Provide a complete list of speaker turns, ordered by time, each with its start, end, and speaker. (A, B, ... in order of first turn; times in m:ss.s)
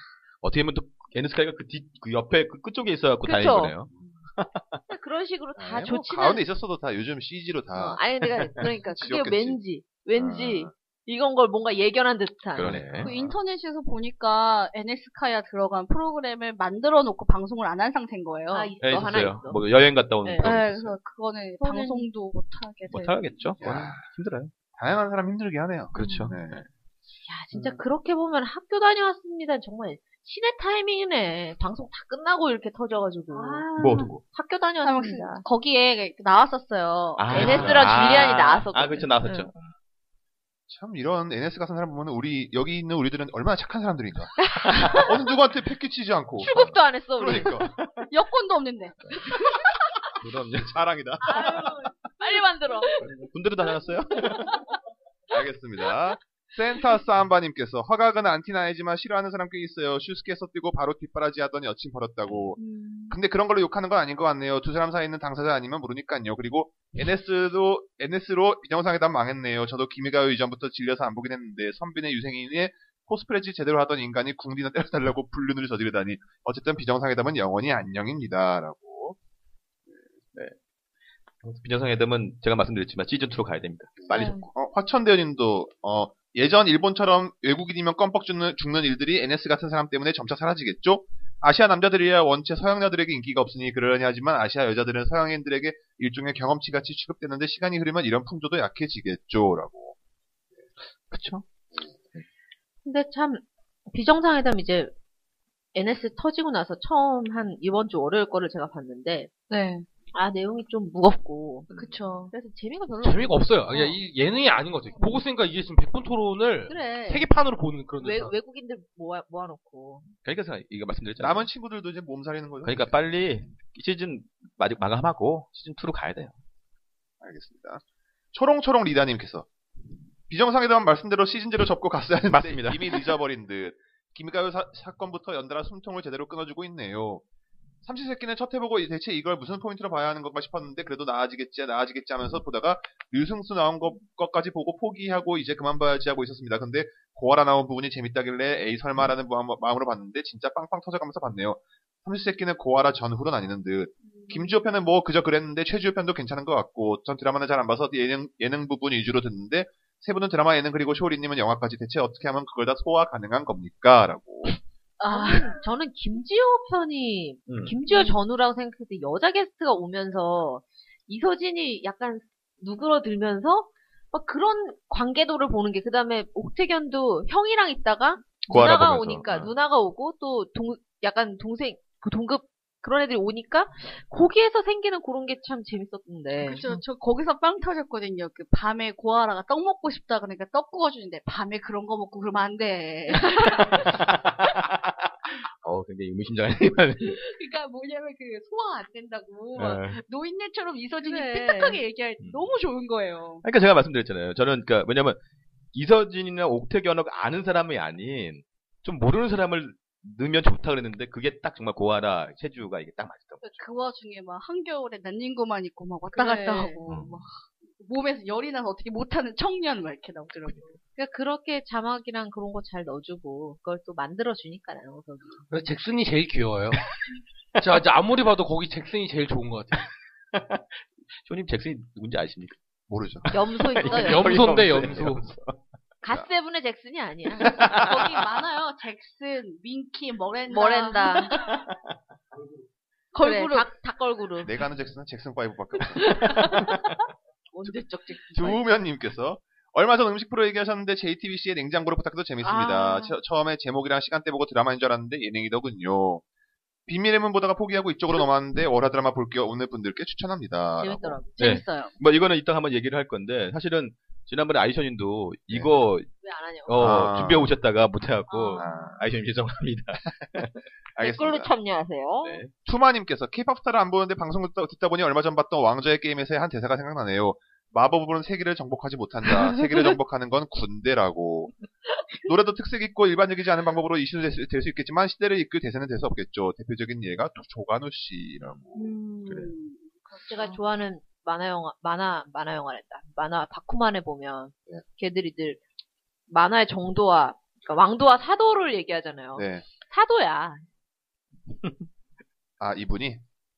0:00.4-0:04.8 A
0:03.2-0:03.7 B
0:04.9-0:06.4 B
0:05.6-0:08.0 C
0:07.8-0:12.8 B
0:08.6-0:09.6 C
0:10.1-0:10.7 C
0:12.6-0:13.2 A
0:12.6-0:13.3 C
0:12.9-0:18.8 D
0:18.5-0:19.6 B
0:18.8-0:20.9 A
0:20.2-0:20.6 B
0:20.4-0:23.2 D
0:21.6-0:22.1 B
0:22.9-0:24.5 A
0:23.6-0:24.0 C
0:24.8-0:26.6 C
0:25.9-0:26.6 A
0:27.3-0:33.7 B
0:27.5-0:27.8 C
0:33.3-0:34.1 D
0:33.8-0:34.2 A
0:34.2-0:35.4 B
0:34.8-0:38.2 D
0:37.2-0:39.7 A
0:37.3-0:39.5 B
0:40.7-0:46.5 C
0:44.4-0:45.1 B
0:46.4-0:47.6 B
0:46.5-0:46.8 A
0:47.2-0:47.7 C
0:47.3-0:48.0 A
0:48.1-0:49.6 D
0:50.1-0:50.8 A
0:50.6-0:51.6 C
0:51.3-0:53.0 B
0:51.5-0:53.1 D
0:53.0-0:54.6 A
0:55.3-1:02.6 C
1:02.6-1:03.1 D
1:02.7-1:03.1 B
1:03.1-1:19.2 C
1:21.4-1:24.1 A
1:24.0-1:40.0 C
1:24.1-1:24.4 D
1:41.1-1:41.4 A
1:42.8-1:44.9 B
1:45.8-1:49.3 B
1:49.5-1:49.9 D
1:50.1-1:54.0 B
1:51.7-1:52.3 D
1:53.0-1:58.4 E
1:56.7-1:57.3 B
1:58.0-2:00.1 B
2:00.2-2:01.5 A
2:01.2-2:02.9 C
2:02.6-2:06.4 A
2:07.2-2:07.8 C
2:08.3-2:09.5 C
2:10.3-2:17.2 C
2:12.3-2:13.1 A
2:17.8-2:44.5 C
2:34.2-2:34.5 D
2:45.0-2:45.6 D
2:45.1-3:06.8 B
2:47.5-2:47.8 A
2:47.9-2:48.2 D
2:58.5-2:59.5 A
3:06.4-3:14.1 D
3:13.4-3:13.6 B
3:13.8-3:17.2 A
3:17.0-3:23.4 D
3:19.6-3:20.0 A
3:21.0-3:21.8 B
3:22.2-3:22.5 A
3:23.4-3:25.2 A
3:25.7-3:33.4 A
3:33.4-3:40.8 D
3:36.1-3:36.8 B
3:36.9-3:37.2 A
3:41.0-3:45.4 B
3:45.5-3:46.8 E
3:47.6-3:49.9 E
3:50.3-3:52.6 A
3:52.9-3:53.3 C
3:53.3-3:55.6 A
3:53.3-3:54.4 B
3:53.8-3:55.3 E
3:56.0-3:57.5 B
3:57.4-4:01.6 D
3:57.4-3:58.2 A
4:00.5-4:01.4 B
4:03.1-4:03.7 D
4:03.1-4:04.6 B
4:04.4-4:06.5 C
4:06.1-4:06.7 B
4:07.5-4:08.6 B
4:08.3-4:16.2 C
4:12.4-4:13.1 B
4:12.5-4:12.9 D
4:16.9-4:21.2 C
4:20.8-4:21.2 B
4:20.8-4:21.9 D
4:21.4-4:26.1 A
4:26.2-4:27.0 B
4:26.6-4:30.7 A
4:26.8-4:27.6 C
4:28.3-4:28.6 B
4:28.4-4:28.9 D
4:28.6-4:29.0 C
4:30.9-4:31.5 C
4:31.0-4:32.4 B
4:32.2-4:32.5 A
4:32.6-4:41.5 C
4:42.2-4:48.9 C
4:48.4-4:48.7 A
4:48.8-4:50.6 D
4:50.1-4:55.6 B
4:56.3-5:00.6 B
4:59.4-4:59.6 C
5:02.6-5:03.2 C